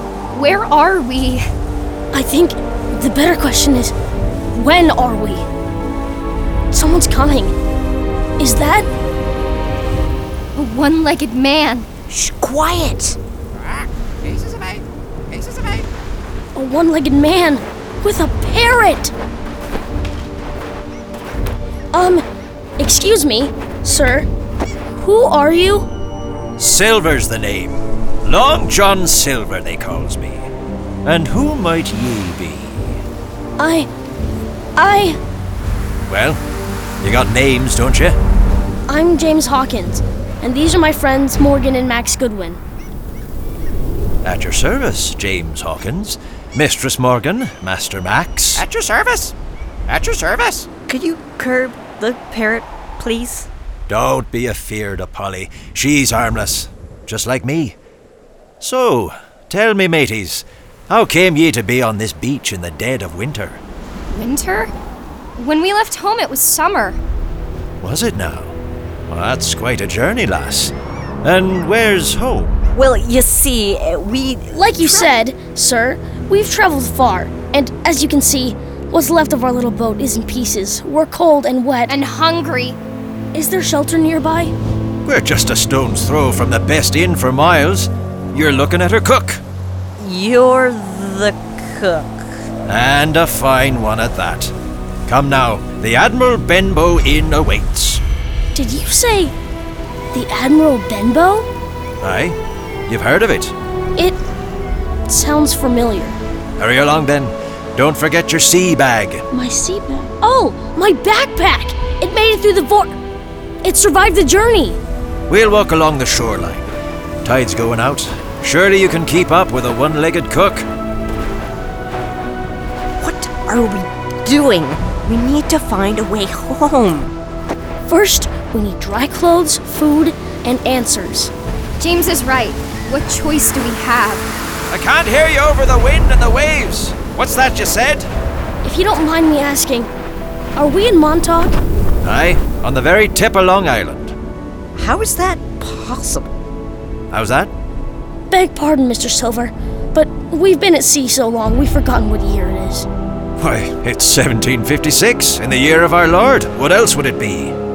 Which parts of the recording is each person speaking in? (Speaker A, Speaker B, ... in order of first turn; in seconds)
Speaker A: 0.3-1.4, 10.5-11.9, 64.1-64.7, 65.3-67.0, 81.9-82.8, 131.8-134.3
Speaker B: 2.1-3.9, 4.5-5.5, 6.7-7.5, 8.4-8.9, 16.5-19.1, 21.9-22.2, 22.8-24.3, 24.9-25.9, 33.6-33.9, 34.8-35.2, 38.9-42.6, 74.5-81.9, 83.3-84.5, 98.5-99.3, 100.1-101.5, 105.1-106.2, 109.3-113.0, 113.6-114.8, 127.8-131.3, 138.6-139.9, 140.6-141.6, 148.3-152.9
Speaker C: 12.1-13.2, 50.9-53.5, 72.7-75.1, 90.0-92.3, 123.0-127.1, 144.8-146.4
Speaker D: 13.5-15.8, 48.5-49.3, 49.9-50.7
Speaker E: 26.6-30.5, 31.0-33.0, 36.1-36.4, 37.0-38.2, 44.2-48.6, 53.9-57.8, 58.6-63.6, 67.8-68.5, 69.1-72.5, 85.0-89.4, 92.7-94.5, 95.0-98.0, 102.0-103.5, 106.6-109.2, 115.3-116.7, 117.2-120.7, 134.7-138.1, 142.0-144.1, 147.1-147.5, 153.4-157.5